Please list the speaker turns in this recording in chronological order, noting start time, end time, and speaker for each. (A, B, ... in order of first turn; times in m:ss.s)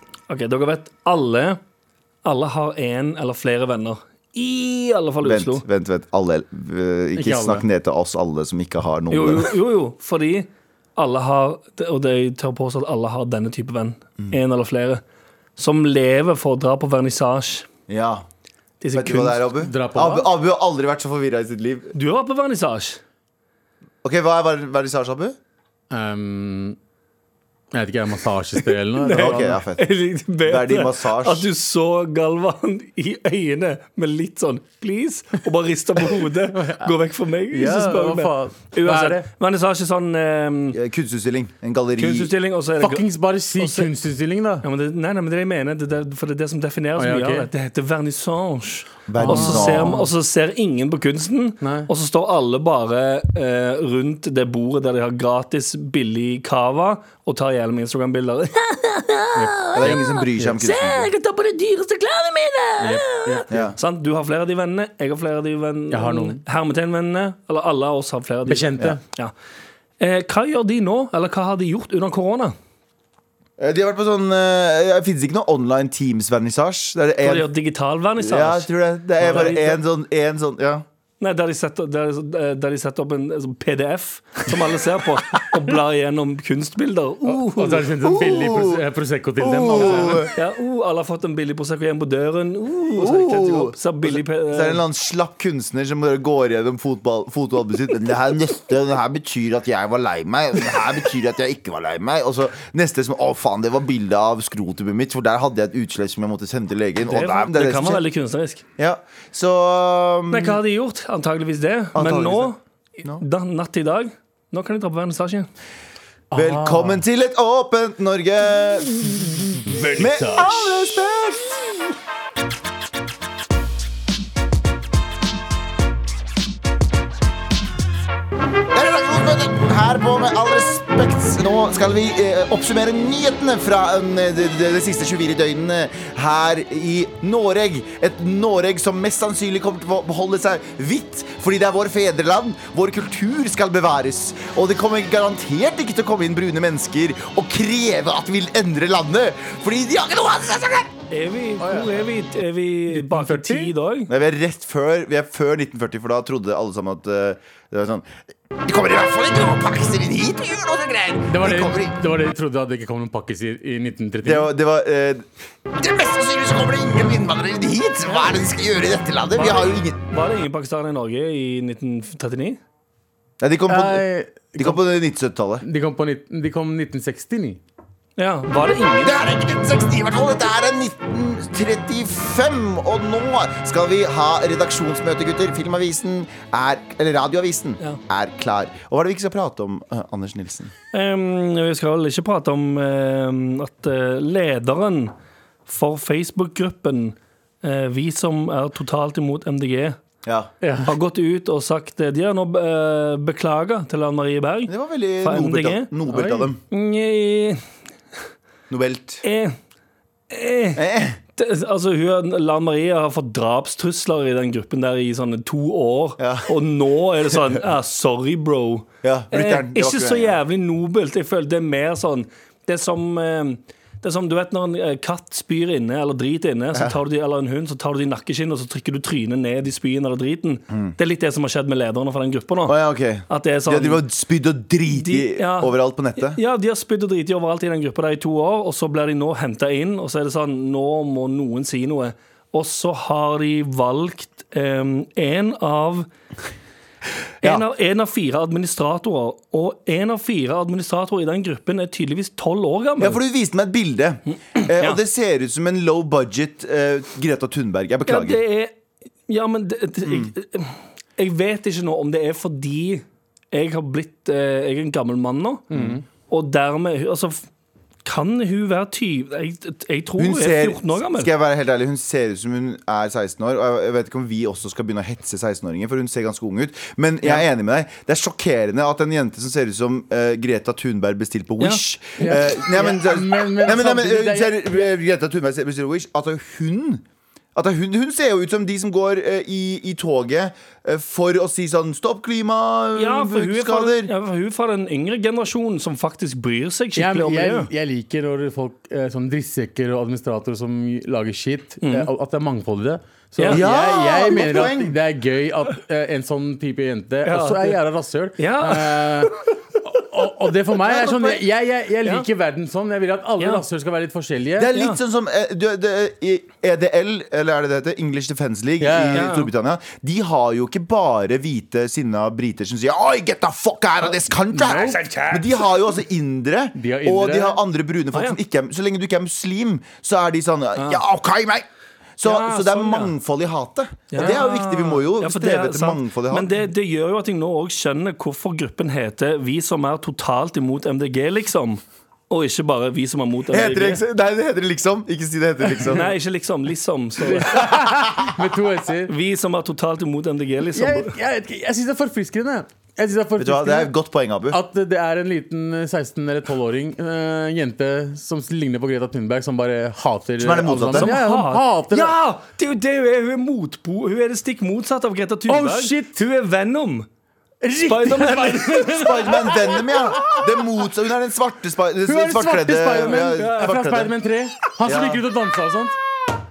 0:00.3-0:01.6 A
0:02.2-0:05.6 A
0:05.2-0:09.5 B
0:07.1-0:07.6 C
0:09.1-0:15.0 A
0:15.6-0:17.7 A
0:17.9-0:18.2 B
0:18.8-0:19.5 A
0:18.9-0:21.9 B
0:19.6-0:20.3 C
0:21.9-0:23.0 A
0:24.0-0:25.4 B
0:25.9-0:26.8 C
0:27.7-0:29.6 C
0:29.0-0:40.8 A
0:29.1-0:29.8 B
0:30.4-0:31.5 B
0:36.5-0:36.9 C
0:37.5-0:39.2 C
0:40.7-0:42.3 B
0:42.0-0:43.9 A
0:42.8-0:44.6 C
0:44.6-0:59.8 A
0:47.0-0:47.5 C
0:49.1-0:50.0 B
0:49.2-0:50.1 C
0:51.6-0:51.9 C
0:59.3-1:00.5 C
0:59.7-1:01.1 B
1:00.6-1:09.3 A
1:02.8-1:03.7 C
1:03.5-1:03.8 B
1:05.9-1:06.4 C
1:08.5-1:09.0 C
1:10.0-1:12.6 A
1:13.6-1:17.5 B
1:17.2-1:19.8 A
1:18.2-1:20.8 B
1:21.2-1:27.9 A
1:27.2-1:30.3 C
1:28.0-1:28.8 B
1:29.4-1:30.4 B
1:29.8-1:34.8 A
1:33.0-1:48.0 B
1:47.0-1:48.6 A
1:48.8-1:50.6 B
1:50.3-1:55.5 A
1:51.9-1:53.2 B
1:56.3-1:57.0 C
1:56.3-2:01.9 B
1:59.6-2:00.8 C
2:08.7-2:30.9 B
2:31.1-2:34.1 A
2:31.6-2:32.0 C
2:32.9-2:33.7 C
2:34.1-2:38.1 B
2:38.6-2:41.9 B
2:41.3-2:44.5 C
2:44.2-2:50.0 B
2:48.0-2:48.3 A
2:49.3-2:52.6 A
2:53.4-2:54.0 B
2:53.7-2:54.8 C
2:54.6-2:55.6 B
2:55.6-2:57.6 C
2:58.2-2:59.2 A
2:59.0-3:10.7 B
3:10.9-3:15.1 A
3:15.6-3:20.0 A
3:20.2-3:20.5 B
3:20.6-3:20.9 C
3:20.8-3:27.6 A
3:24.7-3:26.6 B
3:28.7-3:29.2 B
3:29.2-3:29.6 A
3:30.3-3:54.0 A
3:30.7-3:31.2 B
3:36.2-3:36.5 B
3:39.0-3:40.4 B
3:52.6-3:56.4 B
3:54.9-4:06.1 A
4:07.4-4:13.2 A
4:13.0-4:18.4 B
4:14.5-4:15.0 A
4:18.1-4:18.7 A
4:19.3-4:25.7 A
4:20.0-4:20.3 B
4:25.7-4:26.0 C
4:25.7-4:26.0 B
4:26.2-4:27.5 A
4:28.0-4:31.3 A
4:30.2-4:47.0 B
4:42.2-4:44.9 C
4:47.5-4:54.1 B
4:53.0-4:57.7 A
4:57.0-5:14.7 C
5:01.8-5:02.1 A
5:03.4-5:03.6 A
5:03.5-5:05.0 B
5:07.2-5:07.8 A
5:08.4-5:09.3 A
5:10.8-5:11.4 B
5:14.6-5:31.6 B
5:18.8-5:19.3 C
5:19.1-5:19.5 A
5:24.5-5:25.0 C
5:24.6-5:25.7 A
5:26.8-5:27.6 C
5:28.1-5:28.4 A
5:30.8-5:31.0 A
5:32.2-5:36.5 B
5:32.2-5:33.1 A
5:34.1-5:44.0 A
5:43.5-5:46.1 B
5:45.8-5:47.6 A
5:47.2-5:49.1 C
5:47.6-5:48.3 B
5:49.1-5:51.1 A
5:50.7-5:53.9 C
5:53.4-5:54.6 B
5:54.5-6:02.1 C
6:00.4-6:01.1 B
6:00.9-6:07.1 A
6:05.5-6:06.2 C
6:07.6-6:10.5 C
6:07.8-6:09.3 A
6:09.0-6:14.1 B
6:12.0-6:16.0 C
6:13.1-6:13.8 A
6:14.8-6:15.2 B